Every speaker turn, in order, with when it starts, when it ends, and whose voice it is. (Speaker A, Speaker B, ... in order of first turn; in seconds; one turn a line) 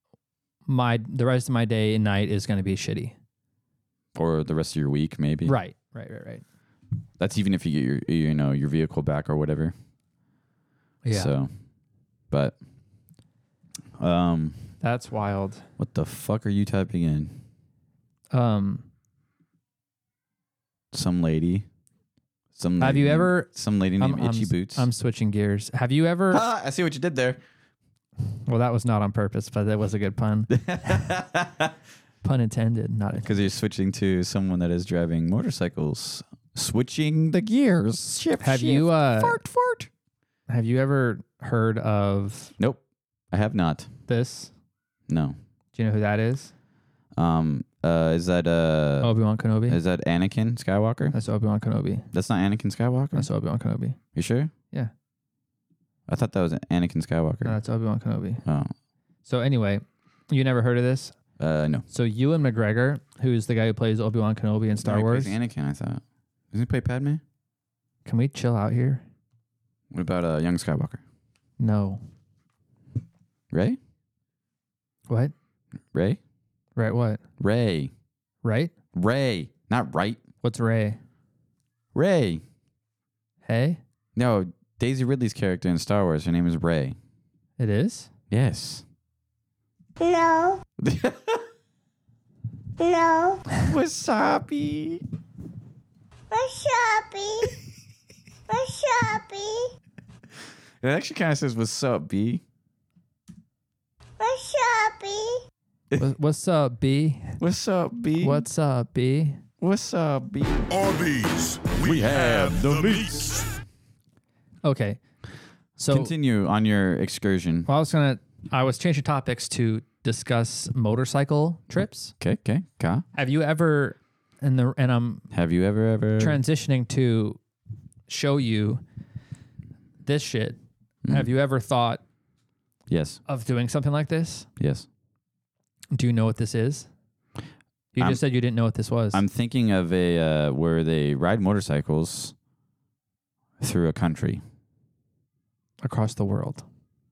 Speaker A: 0.7-3.1
Speaker B: 4.1-5.5
Speaker A: 5.4-6.4
Speaker B: 7.2-9.7
Speaker A: 11.0-11.3
Speaker B: 11.1-11.5
Speaker B: 12.3-12.6
Speaker B: 14.0-14.7
Speaker A: 14.8-15.7
Speaker B: 15.8-17.4
Speaker A: 18.3-18.9
Speaker B: 20.9-21.6
Speaker B: 22.6-24.9
Speaker A: 22.8-26.4
Speaker B: 26.3-27.4
Speaker A: 28.5-30.5
Speaker B: 30.5-31.7
Speaker A: 32.2-33.5
Speaker B: 33.2-39.9
Speaker A: 38.4-39.4
Speaker A: 40.5-42.5
Speaker B: 43.3-43.9
Speaker A: 44.1-44.5
Speaker B: 45.1-45.4
Speaker A: 45.7-46.5
Speaker B: 47.1-49.1
Speaker A: 49.0-49.8
Speaker B: 49.7-51.1
Speaker A: 51.1-52.0
Speaker B: 52.1-53.3
Speaker A: 53.1-54.0
Speaker B: 54.1-54.5
Speaker B: 56.1-57.6
Speaker A: 57.4-58.4
Speaker B: 58.4-58.7
Speaker A: 59.2-61.1
Speaker B: 61.4-61.9
Speaker A: 61.9-65.3
Speaker B: 64.8-67.2
Speaker A: 68.0-69.0
Speaker B: 69.9-71.0
Speaker A: 71.6-72.0
Speaker B: 73.5-73.8
Speaker A: 75.1-75.3
Speaker B: 75.9-76.2
Speaker A: 76.8-77.2
Speaker B: 77.4-77.9
Speaker A: 78.4-78.7
Speaker B: 78.9-80.2
Speaker A: 80.4-81.0
Speaker B: 81.9-82.4
Speaker A: 83.4-83.8
Speaker B: 84.2-87.0
Speaker A: 87.6-88.1
Speaker B: 88.3-88.8
Speaker C: 90.0-90.6
Speaker B: 90.8-91.4
Speaker C: 92.8-93.4
Speaker B: 93.6-95.0
Speaker C: 96.3-97.5
Speaker C: 98.5-99.7
Speaker B: 100.8-102.4
Speaker C: 104.2-105.4
Speaker A: 106.0-107.4
Speaker B: 107.4-108.5
Speaker A: 108.2-109.4
Speaker B: 109.6-111.2
Speaker B: 111.7-113.5
Speaker A: 114.6-115.0
Speaker A: 115.8-116.1
Speaker B: 115.8-117.7
Speaker A: 117.7-122.1
Speaker B: 122.2-123.0
Speaker A: 123.1-125.2
Speaker B: 125.3-126.4
Speaker A: 126.2-127.4
Speaker A: 128.1-128.8
Speaker A: 130.0-132.0
Speaker B: 132.9-133.2
Speaker A: 133.3-134.5
Speaker B: 134.6-134.8
Speaker A: 135.9-136.9
Speaker A: 137.9-139.2
Speaker B: 139.1-142.3
Speaker B: 143.6-144.4
Speaker A: 145.8-146.6